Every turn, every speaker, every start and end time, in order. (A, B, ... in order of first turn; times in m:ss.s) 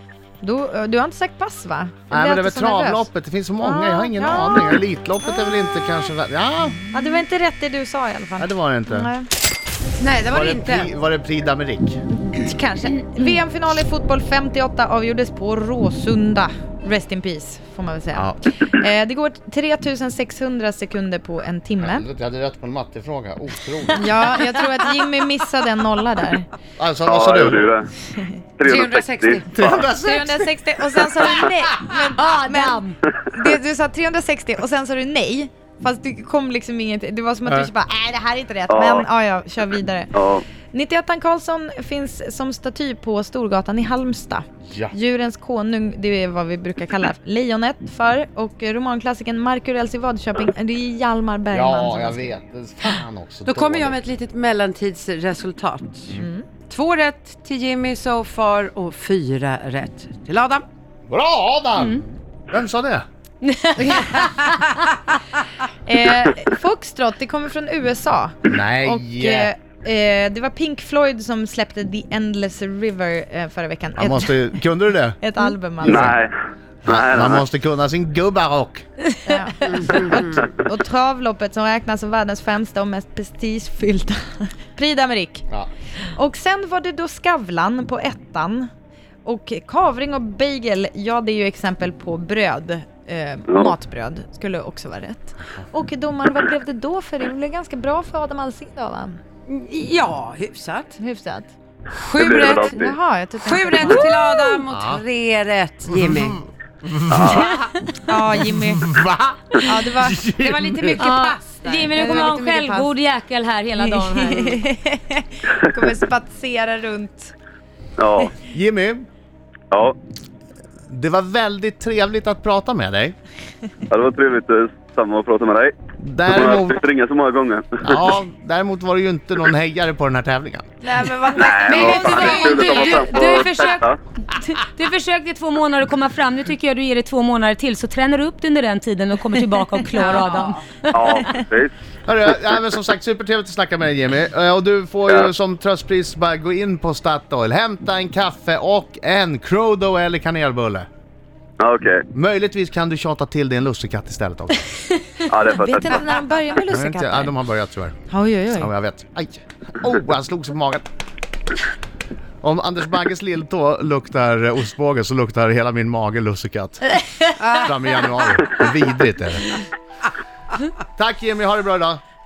0:00.4-0:03.1 A
0:02.1-0:06.8 B
0:03.6-0:04.8 A
0:06.9-0:09.3 A
0:08.4-0:09.1 B
0:10.0-0:10.9 C
0:10.2-0:12.0 B
0:12.1-0:22.0 A
0:21.8-0:24.4 B
0:24.0-0:26.5 A
0:26.8-0:27.7 B
0:27.1-0:27.9 D
0:28.6-0:29.4 D
0:28.6-0:30.3 C
0:29.5-0:30.4 B
0:29.6-0:40.1 A
0:32.2-0:32.9 E
0:38.7-0:39.1 D
0:40.1-0:40.4 D
0:40.7-0:52.3 A
0:44.6-0:44.9 B
0:51.5-0:54.0 B
0:53.4-0:56.1 C
0:56.1-0:56.5 A
0:56.7-1:00.6 C
1:01.1-1:03.0 B
1:03.4-1:04.8 E
1:05.8-1:14.6 A
1:08.4-1:09.5 B
1:14.0-1:15.2 B
1:15.2-1:16.2 A
1:15.8-1:16.2 B
1:15.8-1:16.3 D
1:16.8-1:18.8 B
1:16.8-1:17.4 D
1:19.2-1:25.5 A
1:19.7-1:20.3 C
1:26.0-1:28.7 A
1:29.2-1:39.2 A
1:39.5-1:41.0 C
1:41.0-1:41.5 A
1:41.9-1:42.8 C
1:42.1-1:44.4 A
1:42.1-1:42.9 D
1:43.4-1:46.4 C
1:44.7-1:45.0 B
1:45.9-1:47.5 B
1:47.1-1:47.6 D
1:48.0-1:48.9 A
1:48.5-1:51.0 B
1:49.6-1:51.0 A
1:50.4-1:52.2 C
1:51.0-1:54.6 E
1:51.9-1:52.9 A
1:53.8-1:57.3 A
1:58.0-1:58.3 D
1:58.5-1:59.1 B
1:59.7-2:00.0 D
2:00.9-2:03.1 B
2:03.9-2:05.7 D
2:06.0-2:06.8 B
2:06.3-2:08.1 D
2:07.8-2:10.6 B
2:10.8-2:13.8 A
2:11.4-2:14.0 D
2:11.6-2:13.1 C
2:11.8-2:13.8 E
2:14.3-2:21.4 E
2:20.0-2:20.2 A
2:20.9-2:21.7 D
2:22.1-2:30.9 B
2:31.6-2:32.0 D
2:32.1-2:34.6 B
2:35.3-2:36.0 D
2:35.5-2:37.3 A
2:36.7-2:38.0 B
2:38.1-2:38.7 A
2:38.5-2:40.9 B
2:42.4-2:46.9 B
2:47.4-2:47.8 C
2:47.5-2:49.6 B
2:51.0-2:52.0 B